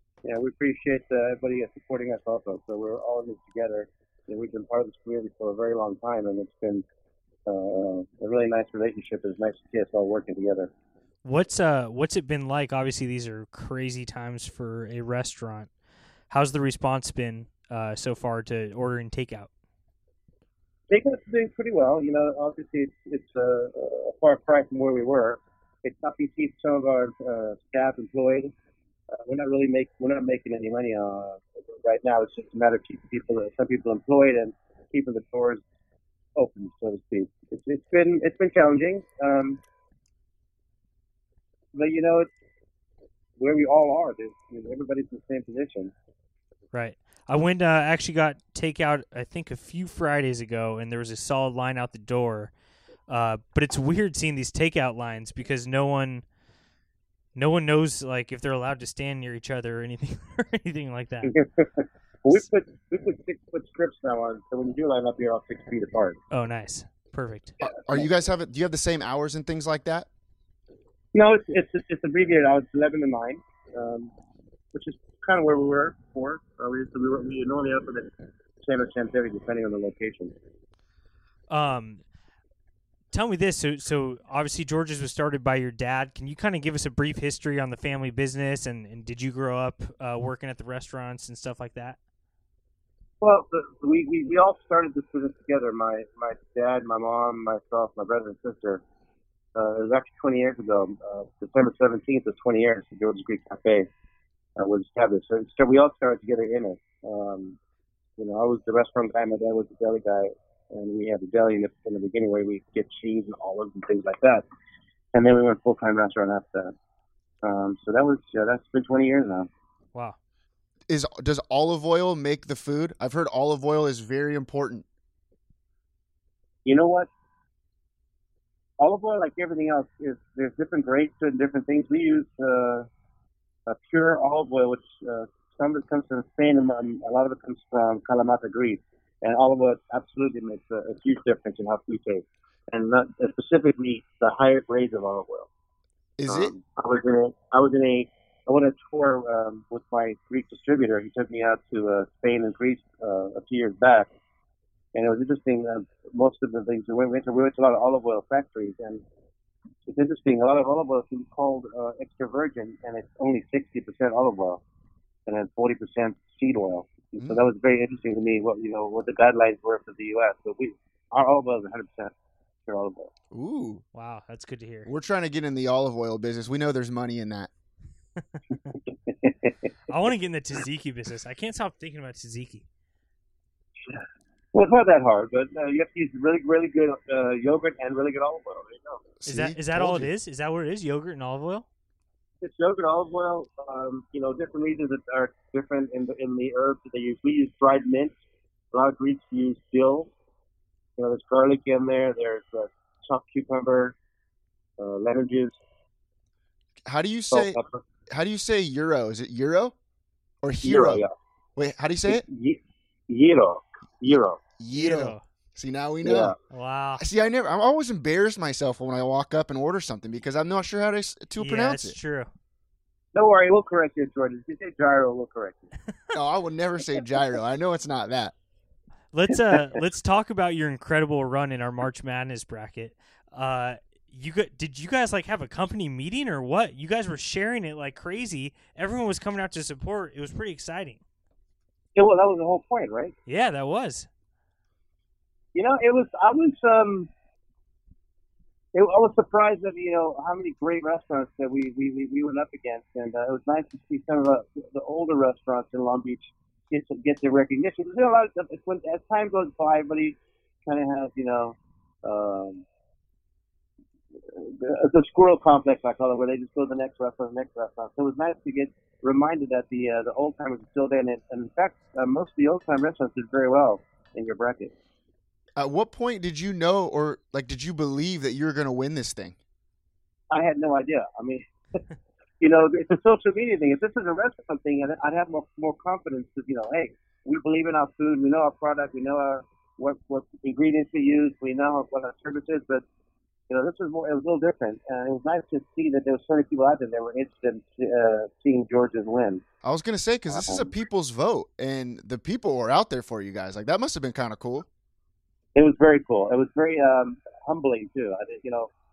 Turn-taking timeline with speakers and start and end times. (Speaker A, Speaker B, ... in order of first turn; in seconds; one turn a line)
Speaker A: 0.2-6.8
Speaker A: 7.5-10.7
Speaker B: 11.2-15.7
Speaker B: 16.3-19.5
Speaker A: 20.9-28.5
Speaker A: 29.2-35.6
Speaker A: 36.4-39.6
Speaker A: 41.7-42.3
Speaker A: 43.4-45.9
Speaker B: 46.7-52.5
Speaker B: 53.1-56.2
Speaker B: 57.4-61.3
Speaker A: 61.3-66.2
Speaker B: 66.3-67.6
Speaker C: 67.6-70.1
Speaker A: 71.1-74.1
Speaker A: 74.7-78.1
Speaker A: 78.6-80.3
Speaker B: 81.5-82.0
Speaker B: 83.1-92.0
Speaker A: 93.2-98.8
Speaker A: 99.5-103.9
Speaker A: 104.6-107.6
Speaker A: 108.2-114.4
Speaker A: 115.1-116.7
Speaker A: 117.4-119.5
Speaker C: 120.9-124.8
Speaker A: 126.7-127.1
Speaker A: 128.8-132.9
Speaker A: 133.7-145.5
Speaker C: 146.2-146.5
Speaker A: 146.3-154.1
Speaker A: 154.9-159.0
Speaker A: 159.9-164.6
Speaker A: 165.3-172.1
Speaker C: 167.2-167.5
Speaker A: 172.7-173.1
Speaker C: 173.3-173.8
Speaker B: 173.9-174.9
Speaker C: 174.9-177.5
Speaker A: 179.1-179.5
Speaker B: 179.9-182.7
Speaker A: 184.5-189.0
Speaker C: 189.2-190.1
Speaker B: 189.3-191.7
Speaker A: 192.4-198.2
Speaker A: 198.7-200.1
Speaker A: 201.0-203.9
Speaker A: 204.8-205.6
Speaker C: 206.9-207.6
Speaker A: 207.3-207.8
Speaker C: 208.1-209.8
Speaker C: 210.4-211.0
Speaker A: 210.6-211.1
Speaker C: 211.6-212.2
Speaker A: 212.1-214.4
Speaker C: 214.6-216.3
Speaker B: 214.7-215.2
Speaker A: 216.0-216.4
Speaker B: 216.5-217.0
Speaker C: 217.0-222.0
Speaker B: 221.4-222.3
Speaker A: 223.2-225.7
Speaker C: 226.1-228.3
Speaker B: 229.1-241.0
Speaker A: 241.9-243.2
Speaker B: 243.3-244.1
Speaker A: 245.6-247.1
Speaker A: 248.7-262.6
Speaker A: 264.3-274.7
Speaker C: 275.6-279.4
Speaker A: 280.3-281.5
Speaker A: 282.4-292.8
Speaker A: 293.5-299.4
Speaker C: 299.6-304.7
Speaker A: 300.3-300.7
Speaker A: 305.6-308.7